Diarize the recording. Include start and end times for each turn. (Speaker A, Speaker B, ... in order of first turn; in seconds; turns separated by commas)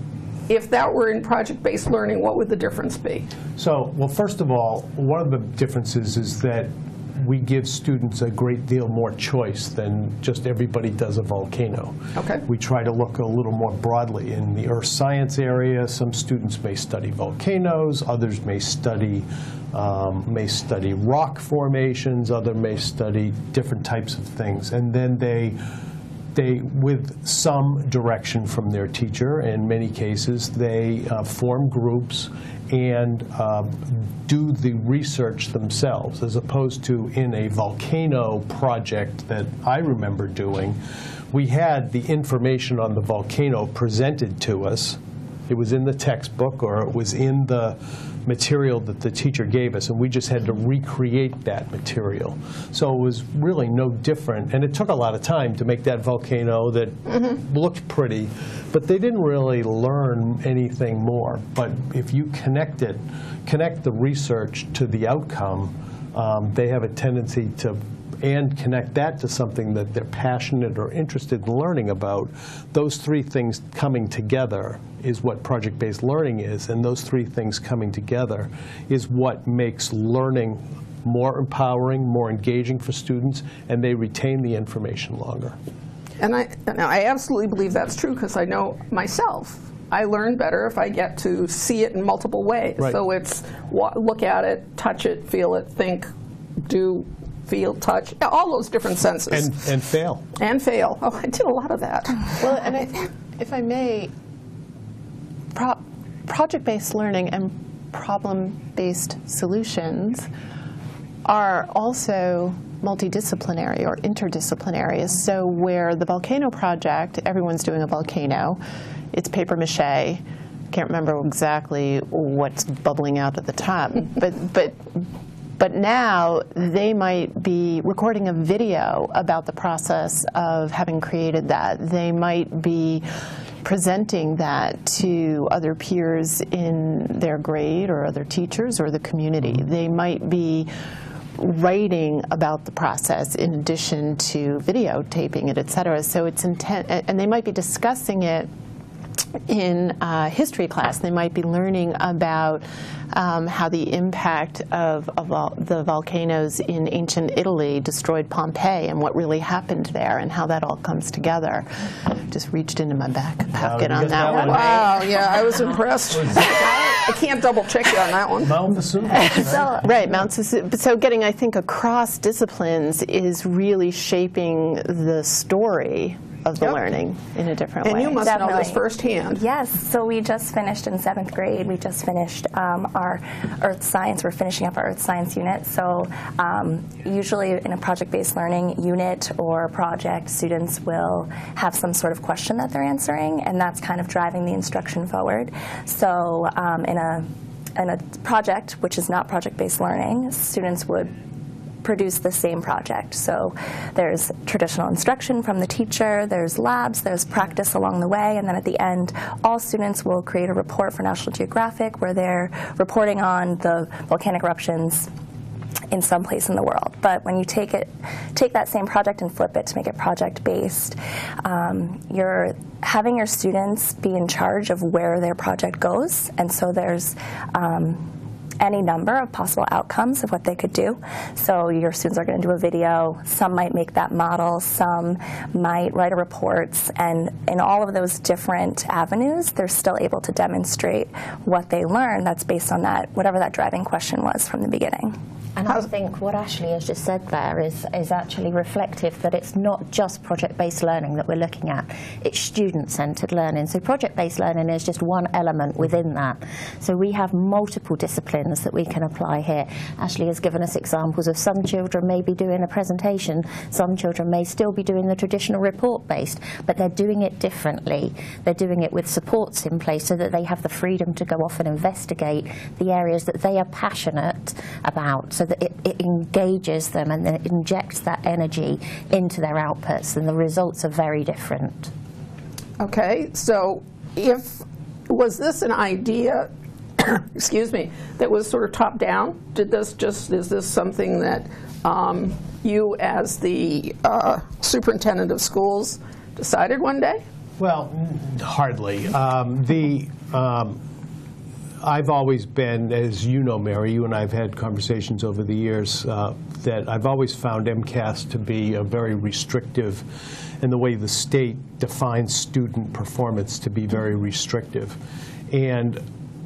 Speaker A: 0.5-3.3, Speaker B: 3.5-25.6, Speaker A: 12.1-12.4, Speaker B: 26.3-40.8, Speaker B: 41.3-85.6, Speaker A: 86.2-96.1, Speaker A: 96.6-99.5, Speaker B: 99.3-100.3, Speaker A: 100.4-102.4, Speaker C: 102.4-104.1, Speaker C: 105.5-110.3, Speaker C: 111.2-118.6, Speaker C: 119.1-125.0, Speaker C: 125.6-133.0, Speaker C: 133.6-140.7, Speaker C: 141.4-148.5, Speaker C: 149.5-165.0, Speaker B: 163.5-164.8, Speaker A: 164.3-168.6, Speaker B: 166.2-166.5, Speaker B: 168.4-169.9, Speaker C: 169.4-178.3, Speaker A: 177.8-179.4, Speaker D: 178.2-178.8, Speaker D: 179.3-201.1, Speaker D: 201.8-215.1, Speaker D: 215.9-228.1, Speaker D: 228.6-245.1, Speaker E: 245.6-281.9, Speaker A: 282.8-297.2, Speaker B: 297.6-300.8, Speaker B: 301.8-310.1, Speaker B: 310.6-315.0, Speaker B: 315.5-316.0